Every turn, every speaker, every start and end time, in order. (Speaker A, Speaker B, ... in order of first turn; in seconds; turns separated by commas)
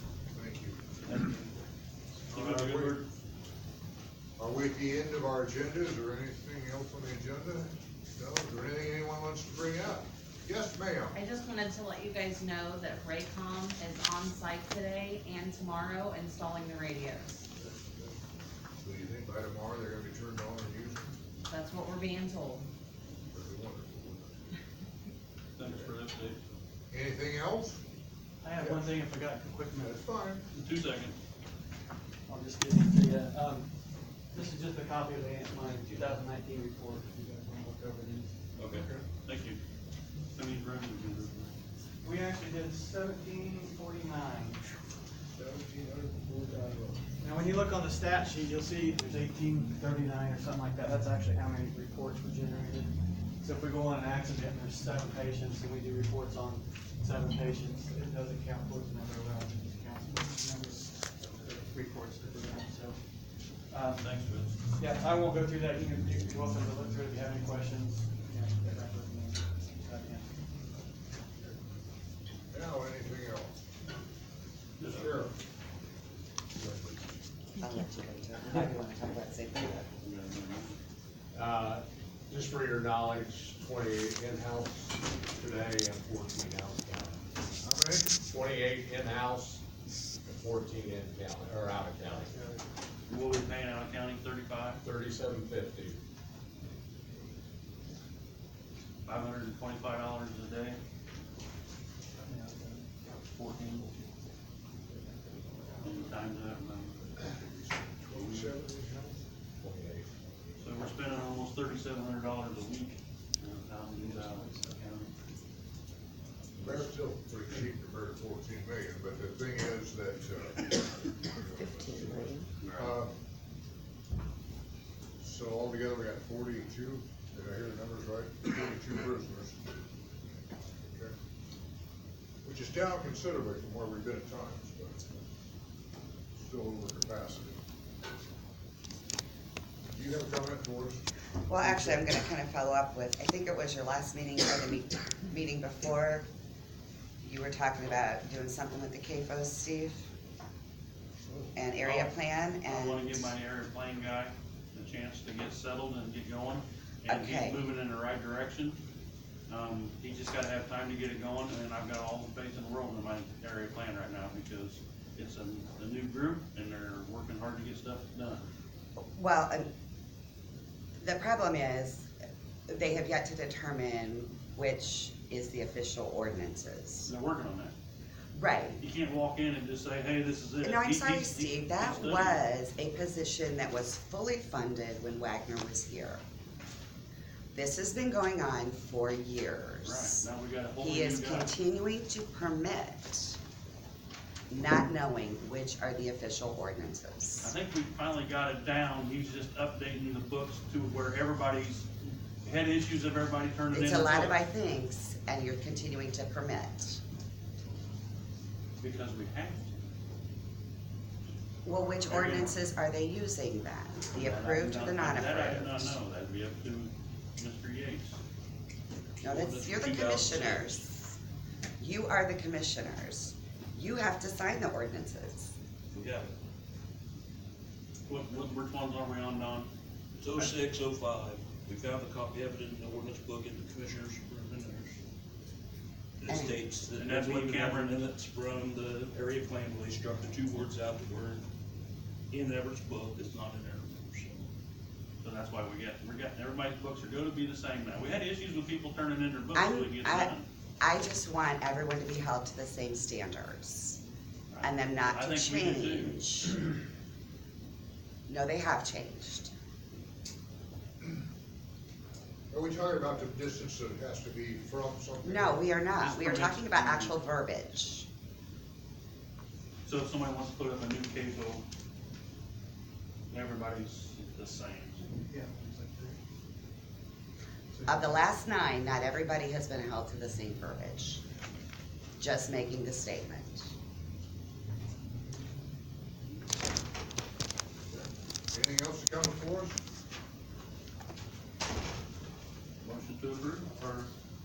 Speaker A: 0.3-0.8, Speaker B: 1.0-1.5, Speaker B: 2.3-3.1, Speaker A: 2.3-3.1, Speaker A: 4.4-11.2, Speaker C: 11.1-17.4, Speaker A: 17.6-18.1, Speaker A: 18.8-21.1, Speaker C: 21.4-22.6, Speaker A: 23.3-24.5, Speaker B: 25.6-26.4, Speaker A: 25.6-25.9, Speaker A: 26.9-27.8, Speaker D: 28.4-30.0, Speaker A: 28.6-28.9, Speaker A: 29.8-30.4, Speaker B: 30.5-31.1, Speaker D: 32.3-38.3, Speaker E: 38.6-38.9, Speaker A: 38.7-39.0, Speaker B: 39.2-39.6, Speaker B: 40.3-41.5, Speaker D: 42.0-44.6, Speaker A: 45.3-47.0, Speaker D: 47.2-64.2, Speaker B: 63.9-64.6, Speaker D: 64.7-70.3, Speaker A: 72.5-73.5, Speaker B: 74.8-75.3, Speaker A: 74.8-75.3, Speaker A: 76.6-76.9, Speaker F: 77.6-79.9, Speaker B: 80.0-80.8, Speaker G: 81.3-87.2, Speaker A: 87.6-88.2, Speaker G: 88.2-89.6, Speaker G: 90.2-92.3, Speaker B: 93.1-94.8, Speaker G: 94.8-96.0, Speaker B: 99.0-100.8, Speaker D: 102.2-102.8, Speaker B: 103.2-104.0, Speaker B: 105.8-108.5, Speaker A: 107.9-109.2, Speaker G: 109.6-110.2, Speaker B: 110.6-114.5, Speaker D: 114.0-115.1, Speaker A: 116.6-123.1, Speaker B: 122.6-122.9, Speaker A: 125.2-129.6, Speaker A: 130.8-131.1, Speaker A: 132.4-135.2, Speaker A: 136.4-137.6, Speaker A: 139.9-141.0, Speaker F: 141.5-146.3, Speaker F: 147.2-150.1, Speaker F: 151.5-153.3, Speaker B: 151.8-158.8, Speaker F: 157.1-157.6, Speaker B: 159.5-168.4, Speaker F: 169.1-169.7, Speaker F: 171.0-172.1, Speaker F: 172.7-177.1, Speaker B: 177.0-177.7, Speaker F: 178.3-178.8, Speaker B: 178.8-182.5, Speaker F: 180.6-186.2, Speaker F: 187.5-190.2, Speaker B: 189.8-191.5, Speaker F: 190.8-193.4, Speaker F: 194.5-197.5, Speaker B: 197.4-204.4, Speaker F: 203.7-207.0, Speaker B: 208.8-209.7, Speaker F: 211.6-216.0, Speaker B: 211.7-212.6, Speaker B: 214.1-218.2, Speaker F: 219.2-221.2, Speaker E: 219.2-220.8, Speaker F: 221.8-225.5, Speaker E: 225.9-226.3, Speaker B: 228.1-229.7, Speaker E: 230.2-235.0, Speaker E: 236.2-241.4, Speaker F: 236.3-236.6, Speaker B: 237.0-238.0, Speaker E: 242.3-244.5, Speaker B: 245.2-250.4, Speaker F: 249.5-254.0, Speaker B: 254.5-256.2, Speaker F: 254.6-256.7, Speaker F: 258.3-259.5, Speaker A: 262.5-265.7, Speaker F: 265.2-268.1, Speaker B: 265.9-267.2, Speaker B: 269.8-271.6, Speaker B: 273.3-275.0, Speaker D: 275.3-276.1, Speaker D: 277.7-278.1, Speaker F: 277.9-281.2, Speaker F: 282.2-283.7, Speaker A: 288.0-289.8, Speaker B: 292.8-294.1